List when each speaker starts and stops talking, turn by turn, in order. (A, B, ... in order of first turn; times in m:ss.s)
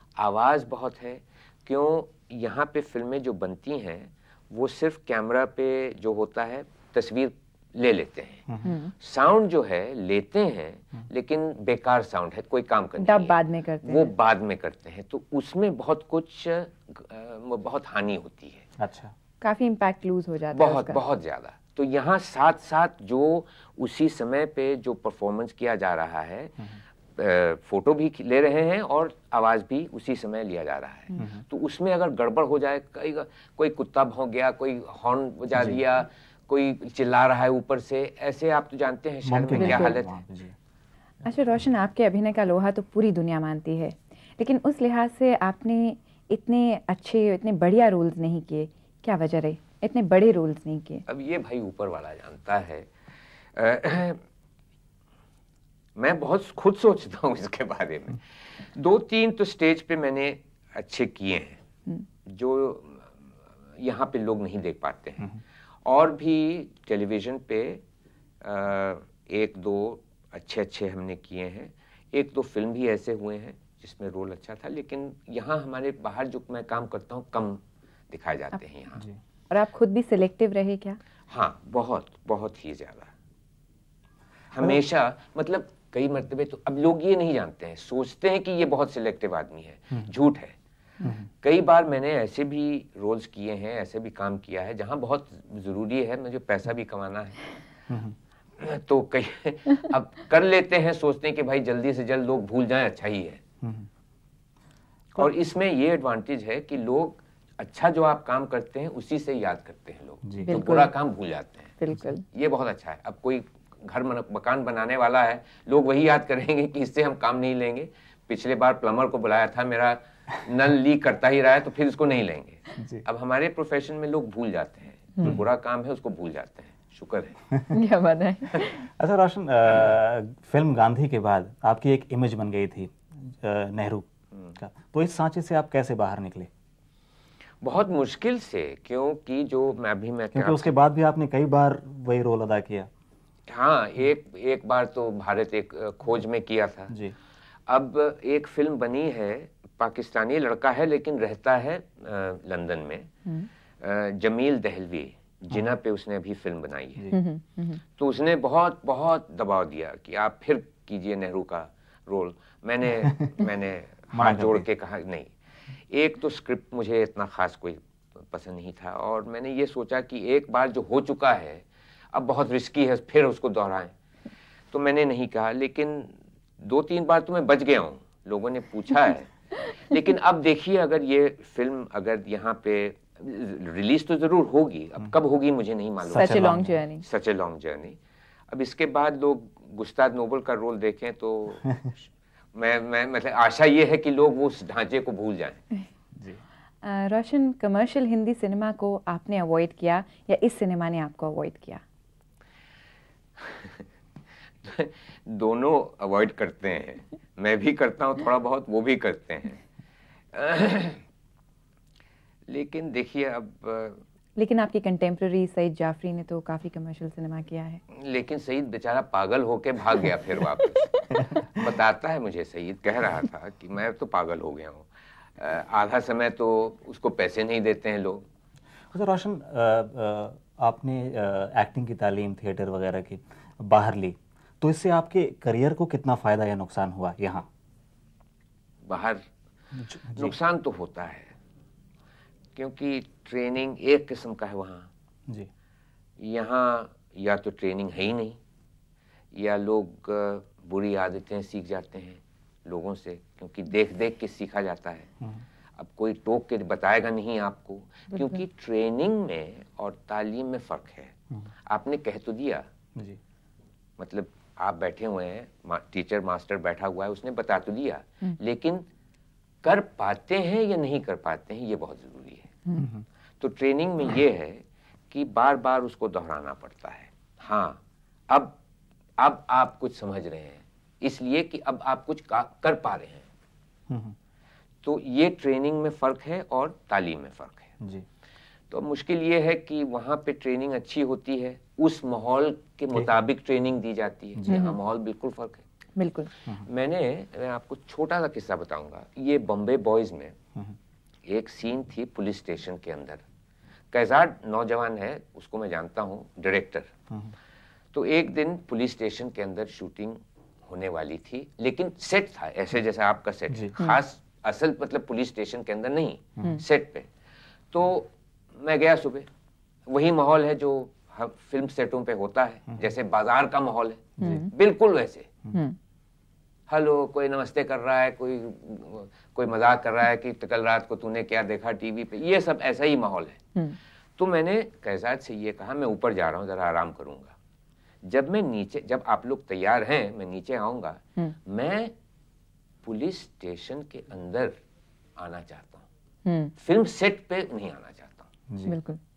0:00.2-0:18.7 A
0:08.6-0:08.9 B
0:13.0-0:14.1 B
0:18.8-0:19.1 C
0:19.4-0:21.0 B
0:20.5-0:26.6 A
0:27.2-0:40.2 A
0:35.6-0:35.8 C
0:39.2-0:40.6 C
0:39.5-0:40.0 B
0:41.2-0:51.0 B
0:51.1-0:52.9 A
0:53.5-0:54.2 A
0:56.0-1:01.6 A
1:02.2-1:03.2 A
1:03.8-1:07.8 A
1:08.4-1:19.0 A
1:19.5-1:21.0 B
1:21.3-1:23.1 A
1:24.5-1:30.6 A
1:31.0-1:31.3 C
1:31.4-1:37.4 A
1:37.9-1:38.2 C
1:38.6-1:43.4 A
1:43.6-1:43.9 C
1:45.2-2:07.4 A
1:50.2-1:50.5 C
1:50.5-1:50.9 B
1:51.8-1:52.2 B
2:02.8-2:03.0 C
2:07.7-2:08.9 B
2:08.8-2:16.5 C
2:17.6-2:20.8 A
2:20.3-2:22.9 C
2:23.5-2:27.0 A
2:26.9-2:27.2 C
2:27.7-2:33.1 A
2:33.8-2:37.1 A
2:37.1-2:37.8 B
2:37.9-2:53.9 A
2:43.0-2:43.3 C
2:44.1-2:44.7 C
2:54.7-3:08.0 A
3:06.0-3:06.7 C
3:06.1-3:07.1 B
3:08.5-3:12.0 A
3:12.5-3:15.6 A
3:16.2-3:16.4 C
3:16.8-3:21.8 B
3:23.4-3:23.8 A
3:24.6-3:29.6 A
3:30.3-3:31.0 A
3:32.5-3:34.0 A
3:34.4-3:37.8 B
3:37.9-3:48.2 A
3:48.9-3:57.5 C
3:58.9-3:59.2 A
3:59.7-4:00.4 C
4:00.1-4:01.3 A
4:02.6-4:04.9 A
4:06.2-4:08.4 A
4:09.3-4:15.1 A
4:15.8-4:21.1 A
4:21.6-4:22.6 A
4:24.0-4:28.8 A
4:29.6-4:32.6 A
4:32.8-4:33.0 C
4:33.4-4:38.6 A
4:39.2-4:43.3 A
4:43.9-4:44.2 C
4:44.8-4:47.7 A
4:47.8-4:48.0 C
4:48.7-4:55.6 A
4:54.4-4:54.6 C
4:54.5-4:54.8 B
4:56.0-4:56.3 B
4:56.5-5:00.4 A
5:01.2-5:03.2 A
5:03.9-5:06.9 A
5:07.9-5:17.1 A
5:13.5-5:13.8 C
5:17.7-5:19.3 A
5:19.9-5:25.3 A
5:24.2-5:24.5 B
5:26.7-5:33.4 A
5:34.2-5:37.3 A
5:38.0-5:41.9 A
5:42.8-5:44.6 A
5:45.2-5:45.9 A
5:46.2-5:46.5 B
5:46.6-5:48.3 A
5:48.5-5:48.8 C
5:48.6-5:49.0 B